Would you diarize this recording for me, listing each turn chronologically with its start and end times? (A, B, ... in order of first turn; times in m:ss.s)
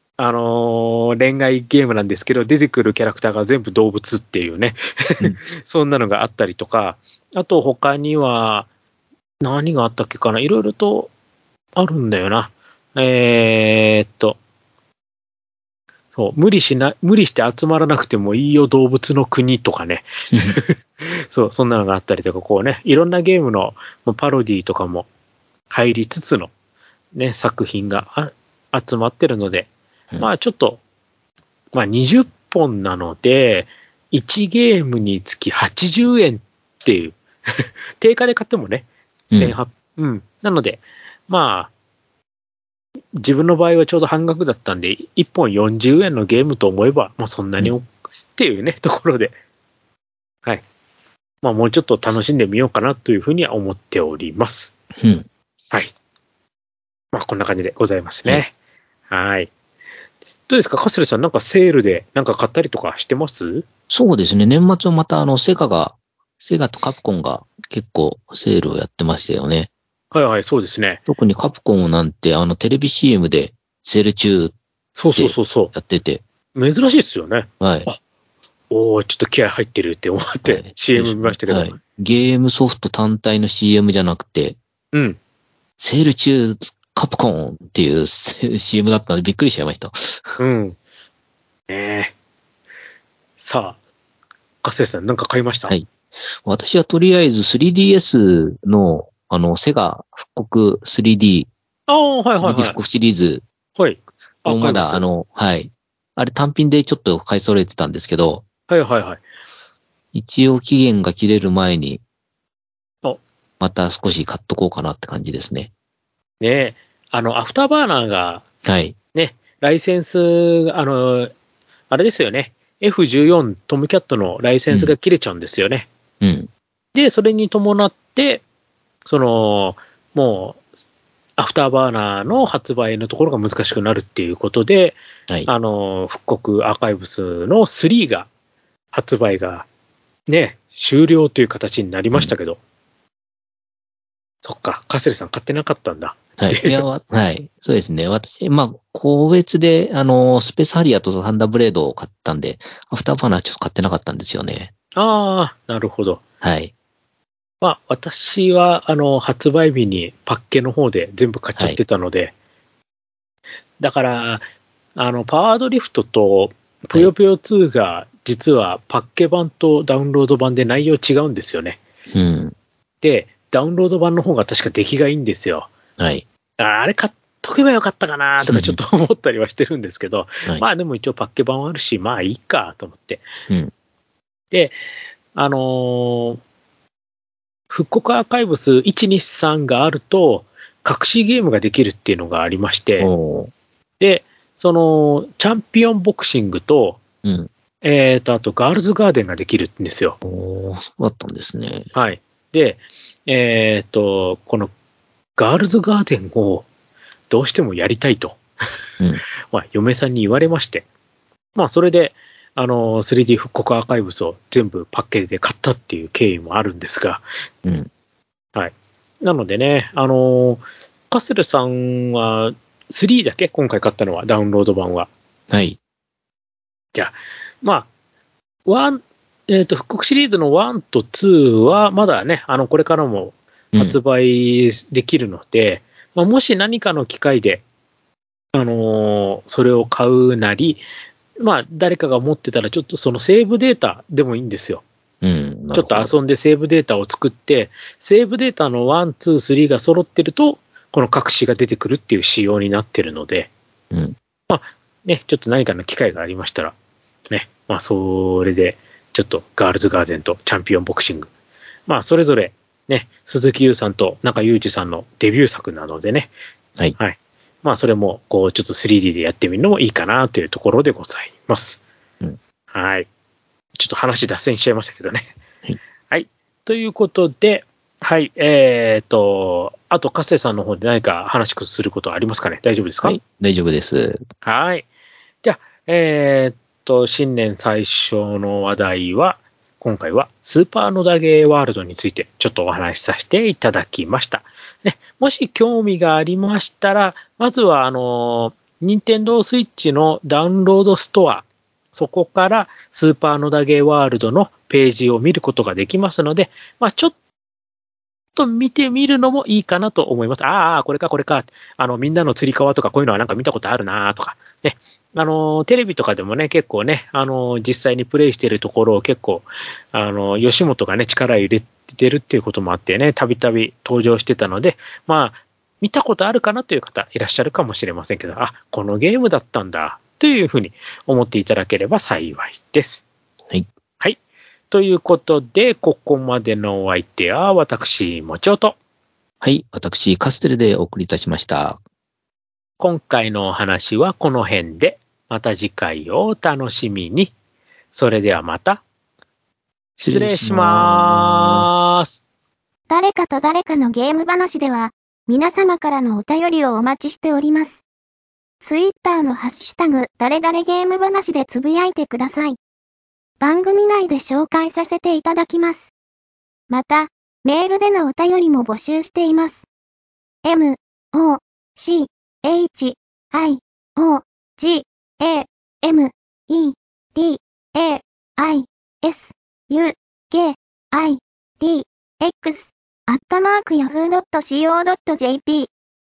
0:00.2-0:08.7 A
0:09.4-0:11.1 A
0:11.8-0:14.4 A
0:16.1-0:25.1 A
0:20.3-0:20.6 B
0:25.7-0:26.5 A
0:27.2-0:30.8 A
0:31.7-0:41.7 A
0:43.2-0:49.4 A
0:51.4-0:54.7 A
0:55.0-0:55.3 B
0:57.1-0:58.5 A
0:59.1-0:59.5 A
1:00.5-1:03.7 A
1:03.9-1:09.7 B
1:10.1-1:11.0 A
1:11.1-1:14.6 B
1:15.0-1:15.7 A
1:15.2-1:16.2 B
1:16.6-1:18.0 A
1:17.6-1:17.9 B
1:18.7-1:21.8 A
1:20.4-1:24.6 B
1:24.9-1:25.2 A
1:25.8-1:30.4 B
1:30.4-1:30.8 A
1:31.7-1:32.1 A
1:33.4-1:33.8 A
1:34.6-1:35.7 A
1:35.7-1:41.5 B
1:41.9-1:42.8 A
1:42.4-1:43.4 B
1:43.8-1:45.0 A
1:44.5-1:48.4 B
1:48.7-1:49.2 A
1:50.1-1:52.0 B
1:53.6-1:55.7 B
1:56.4-1:58.5 A
1:58.6-1:59.0 B
1:59.1-2:01.3 A
2:01.9-2:05.9 A
2:06.2-2:06.5 B
2:07.0-2:08.4 A
2:09.1-2:10.6 A
2:11.4-2:18.3 A
2:18.9-2:19.7 A
2:20.3-2:22.6 A
2:24.4-2:26.8 A
2:26.4-2:34.7 B
2:35.0-2:36.2 A
2:36.4-2:36.7 B
2:37.6-2:42.3 A
2:43.8-2:44.4 A
2:45.0-2:51.8 A
2:52.1-2:52.6 B
2:53.0-2:55.7 A
2:56.0-2:56.2 B
2:56.6-3:03.3 A
2:58.4-2:58.8 B
3:04.5-3:04.8 A
3:05.3-3:06.4 A
3:07.7-3:13.1 A
3:13.0-3:13.5 B
3:14.0-3:17.0 A
3:17.2-3:17.5 B
3:17.8-3:20.2 A
3:20.2-3:21.9 B
3:21.9-3:24.7 A
3:25.4-3:26.7 A
3:27.3-3:28.4 A
3:29.5-3:30.9 A
3:31.6-3:37.2 A
3:38.6-3:45.1 A
3:45.5-3:45.8 B
3:47.0-3:47.9 A
3:48.7-3:57.6 A
3:58.5-4:00.8 A
4:01.4-4:04.8 A
4:05.2-4:06.1 B
4:05.7-4:13.5 A
4:14.5-4:16.8 A
4:17.3-4:21.3 A
4:21.9-4:26.3 A
4:27.0-4:31.8 A
4:32.7-4:33.1 A
4:33.8-4:35.3 A
4:36.1-4:43.2 A
4:43.0-4:44.2 B
4:44.4-4:44.9 A
4:45.4-5:07.2 A
5:08.4-5:33.0 A
5:34.7-5:38.8 A
5:39.4-5:41.8 B
5:42.8-5:47.3 A
5:47.9-5:48.8 A
5:50.0-5:52.2 A
5:50.0-5:51.7 B
5:52.9-5:57.8 C
5:58.6-6:02.6 C
6:03.4-6:05.9 C
6:06.7-6:09.7 C
6:10.4-6:25.7 C